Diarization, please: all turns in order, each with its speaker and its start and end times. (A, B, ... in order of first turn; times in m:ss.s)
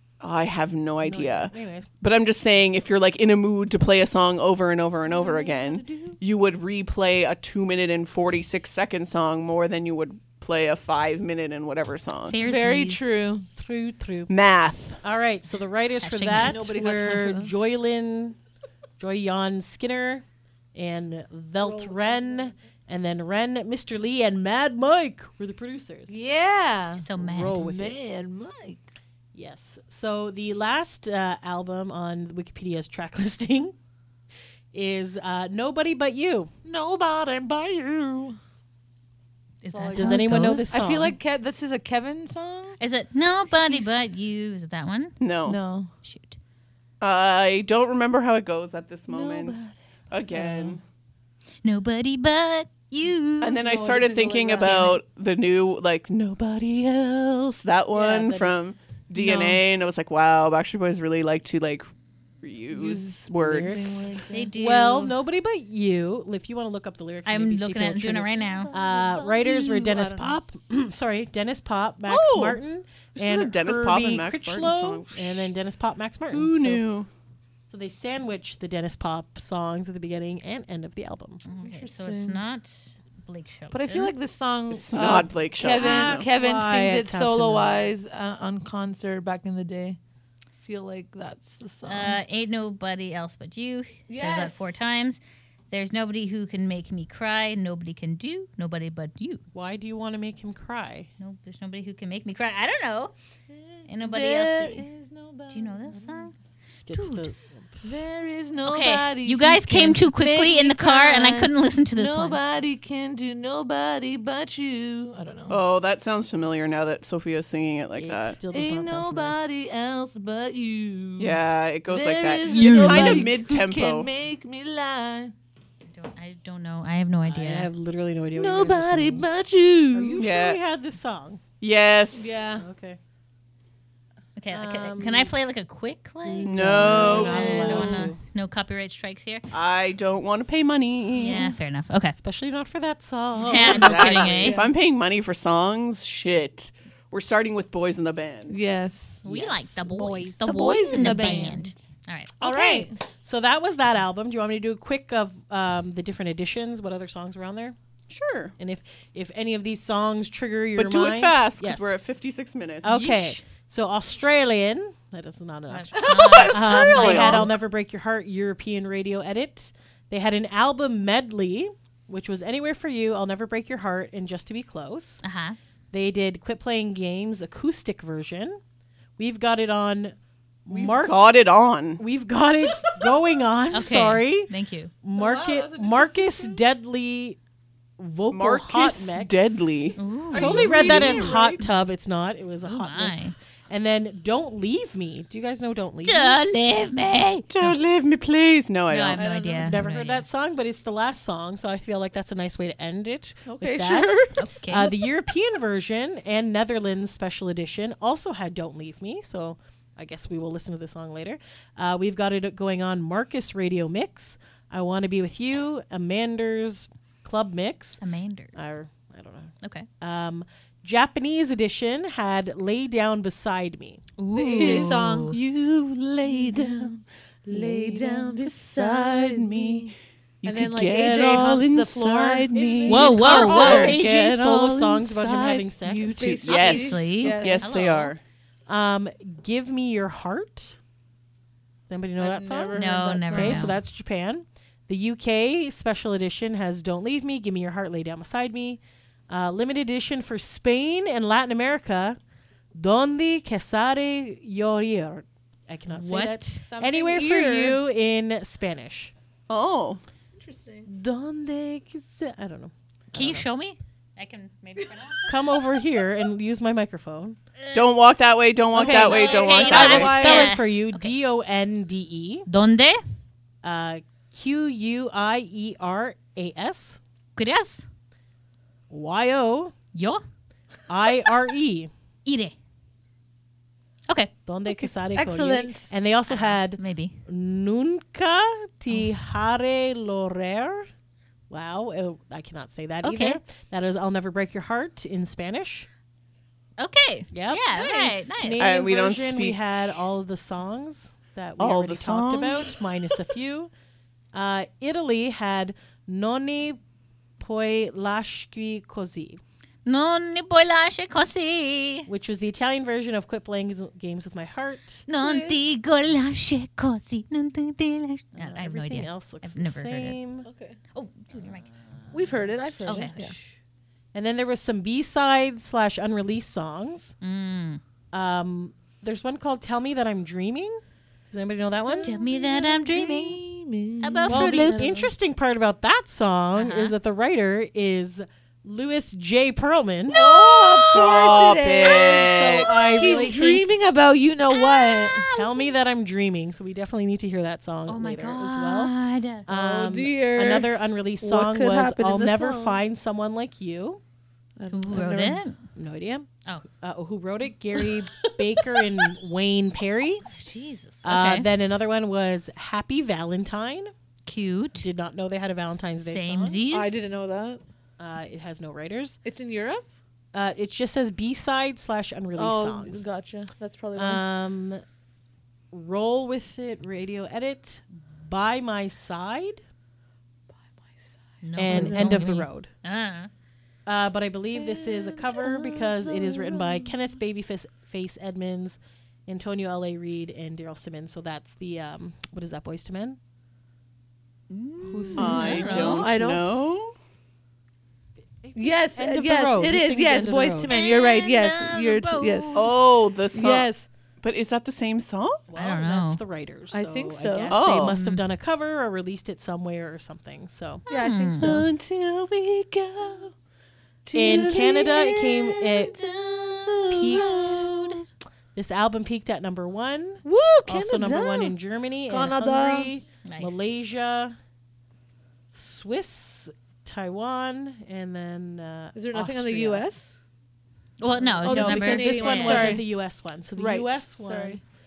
0:00.2-0:12.4 A
0:01.0-0:01.9 B
0:05.1-0:06.2 B
0:12.3-0:13.1 C
0:12.4-0:13.5 D
0:13.6-0:14.3 B
0:14.3-0:15.0 A
0:15.0-0:18.4 B
0:16.0-0:16.6 C
0:16.4-0:17.5 D
0:19.0-0:26.1 B
0:21.6-0:22.5 D
0:26.1-0:27.0 D
0:27.0-0:27.6 C
0:27.2-0:28.0 B
0:27.6-0:28.9 D
0:29.3-0:33.7 B
0:34.7-0:36.5 B
0:36.6-0:38.4 D
0:39.6-0:40.7 C
0:39.7-0:42.8 D
0:40.0-0:41.2 B
0:42.8-0:45.2 C
0:43.7-0:43.9 D
0:45.2-0:45.6 A
0:45.5-0:45.9 D
0:46.0-0:46.4 C
0:47.0-0:50.8 A
0:49.1-0:49.7 D
0:50.3-0:50.8 B
0:51.6-0:53.6 C
0:53.4-1:01.9 A
0:53.6-0:54.9 D
0:54.6-0:55.0 C
0:57.9-0:58.6 B
0:59.2-0:59.6 D
1:02.4-1:04.1 A
1:02.7-1:04.6 D
1:03.4-1:16.8 B
1:04.3-1:05.2 C
1:07.2-1:08.7 C
1:08.4-1:10.4 D
1:12.1-1:12.6 A
1:13.2-1:15.5 A
1:16.3-1:17.1 A
1:17.7-1:21.4 B
1:21.5-1:24.1 C
1:21.6-1:22.4 D
1:23.7-1:30.0 D
1:24.7-1:26.3 A
1:25.7-1:27.9 B
1:30.6-1:32.2 D
1:31.8-1:39.4 C
1:34.1-1:34.7 D
1:39.5-1:41.1 B
1:41.2-1:43.1 C
1:43.5-1:46.3 D
1:43.9-1:44.9 C
1:45.5-1:46.3 C
1:46.9-1:47.9 B
1:46.9-1:47.3 C
1:47.8-1:55.6 D
1:48.6-1:52.4 C
1:55.5-1:58.4 A
1:58.0-1:59.4 B
1:58.5-2:05.3 D
2:01.2-2:04.1 A
2:02.5-2:03.3 C
2:02.6-2:03.2 B
2:05.9-2:07.7 C
2:07.3-2:09.3 B
2:08.4-2:10.3 D
2:09.9-2:11.4 B
2:10.2-2:10.6 A
2:11.6-2:12.4 A
2:12.1-2:12.7 D
2:12.5-2:13.0 B
2:14.4-2:19.5 C
2:14.5-2:15.3 B
2:16.2-2:17.2 D
2:16.4-2:18.2 B
2:16.5-2:18.1 A
2:19.5-2:21.5 A
2:21.1-2:22.2 C
2:22.2-2:24.6 B
2:23.4-2:24.6 C
2:23.6-2:28.6 A
2:24.3-2:24.7 D
2:28.5-2:29.2 D
2:29.2-2:32.3 C
2:29.2-2:30.4 B
2:30.4-2:31.7 D
2:30.9-2:31.5 B
2:32.4-2:33.0 D
2:32.4-2:37.8 B
2:38.1-2:38.5 A
2:38.6-2:41.9 B
2:40.8-2:42.9 A
2:42.8-2:55.2 B
2:42.9-2:43.4 C
2:45.7-2:47.5 C
2:45.9-2:47.5 D
2:47.0-2:47.4 A
2:55.2-2:55.6 C
2:55.9-2:58.6 B
2:59.2-3:01.1 B
3:00.7-3:02.0 A
3:02.0-3:04.5 B
3:03.0-3:03.3 D
3:03.7-3:04.9 C
3:05.0-3:07.4 B
3:05.2-3:06.6 D
3:08.0-3:09.6 B
3:08.3-3:11.3 A
3:10.0-3:11.7 C
3:10.3-3:11.6 D
3:10.3-3:16.4 B
3:12.6-3:13.4 C
3:16.0-3:17.7 C
3:17.5-3:19.3 A
3:18.9-3:20.3 C
3:19.2-3:19.8 D
3:19.6-3:38.0 B
3:23.5-3:24.5 D
3:24.4-3:24.9 C
3:38.0-3:38.8 C
3:38.6-3:44.0 B
3:44.2-3:45.4 C
3:44.3-3:45.4 D
3:44.6-3:58.2 A
3:46.3-3:47.0 D
3:47.5-3:49.9 D
3:50.4-3:52.5 D
3:52.5-3:56.2 B
3:52.9-3:54.0 C
3:53.3-3:53.9 D
3:55.8-3:57.7 D
3:56.5-3:58.1 C
3:58.7-4:00.8 B
4:01.9-4:12.2 B
4:02.2-4:03.8 D
4:02.7-4:03.8 C
4:12.8-4:19.1 B
4:15.9-4:16.6 C
4:16.6-4:17.8 D
4:19.5-4:20.0 A
4:20.4-4:20.9 D
4:20.9-4:23.5 B
4:23.1-4:25.3 C
4:25.3-4:27.4 B
4:27.6-4:27.9 C
4:27.7-4:30.2 A
4:28.7-4:32.5 B
4:28.8-4:30.6 D
4:28.9-4:31.2 C
4:32.5-4:33.0 C
4:33.6-4:37.0 B
4:37.4-4:37.8 C
4:38.9-4:39.7 B
4:39.9-4:40.2 C
4:40.9-4:41.9 B
4:42.2-4:42.5 C
4:44.5-4:50.9 B
4:44.7-4:45.9 D
4:46.3-4:47.1 C
4:51.5-4:55.9 B
4:53.0-4:53.4 C
4:56.8-4:58.6 C
4:57.3-5:03.7 B
4:58.6-4:59.6 A
5:01.6-5:02.8 A
5:04.3-5:06.8 B
5:07.4-5:09.4 B
5:09.8-5:12.1 C
5:12.1-5:15.0 B
5:15.1-5:20.2 C
5:15.2-5:15.6 D
5:18.4-5:20.5 B
5:20.4-5:20.8 D
5:20.9-5:22.1 C
5:22.1-5:23.4 D
5:22.8-5:23.2 B
5:22.8-5:23.4 C
5:24.1-5:27.2 B
5:27.2-5:27.8 C
5:28.1-5:32.5 B
5:31.9-5:35.1 D
5:32.0-5:33.4 C
5:34.0-5:35.1 C
5:34.3-5:40.2 B
5:36.6-5:37.0 C
5:40.1-5:45.3 D
5:40.2-5:42.7 A
5:42.1-5:43.7 B
5:42.8-5:43.3 C
5:44.5-5:45.8 C
5:45.3-5:48.9 B
5:47.9-5:49.5 C
5:49.5-5:54.0 B
5:49.5-5:52.8 D
5:54.6-5:55.4 D
5:54.7-5:55.6 C
5:55.8-5:56.3 B
5:56.8-6:00.2 B
6:00.3-6:01.5 C
6:01.0-6:03.9 B
6:04.3-6:04.9 C
6:04.8-6:06.6 B
6:06.0-6:07.0 C
6:06.7-6:07.6 D
6:08.0-6:09.2 B
6:09.2-6:09.9 D
6:10.3-6:13.0 B
6:12.4-6:14.2 D
6:14.0-6:14.8 B
6:15.7-6:19.6 B
6:20.5-6:22.3 D
6:21.4-6:23.3 C
6:21.6-6:22.7 B
6:23.9-6:33.2 B
6:24.5-6:26.9 D
6:34.5-6:36.0 C
6:34.8-6:35.8 B
6:35.1-6:36.6 D
6:35.2-6:36.9 A
6:38.4-6:40.7 B
6:38.6-6:42.7 D
6:40.7-6:42.7 C
6:42.6-6:43.7 A
6:43.3-6:43.9 D
6:44.2-6:45.4 A
6:45.5-6:50.8 B
6:45.6-6:46.2 C
6:46.7-6:47.6 D
6:47.5-6:48.0 A
6:47.8-6:48.2 C
6:50.9-6:51.6 C
6:50.9-6:51.7 D
6:51.4-6:53.3 A
6:54.0-6:56.0 D
6:54.1-6:56.0 B
6:55.7-6:58.0 C
6:56.7-6:57.9 D
6:56.9-6:57.7 B
6:58.5-7:04.4 B
7:00.2-7:02.9 D
7:03.2-7:03.7 C
7:05.5-7:09.8 B
7:08.9-7:10.1 D
7:11.0-7:12.8 C
7:11.2-7:14.6 B
7:11.4-7:12.9 D
7:13.6-7:14.6 D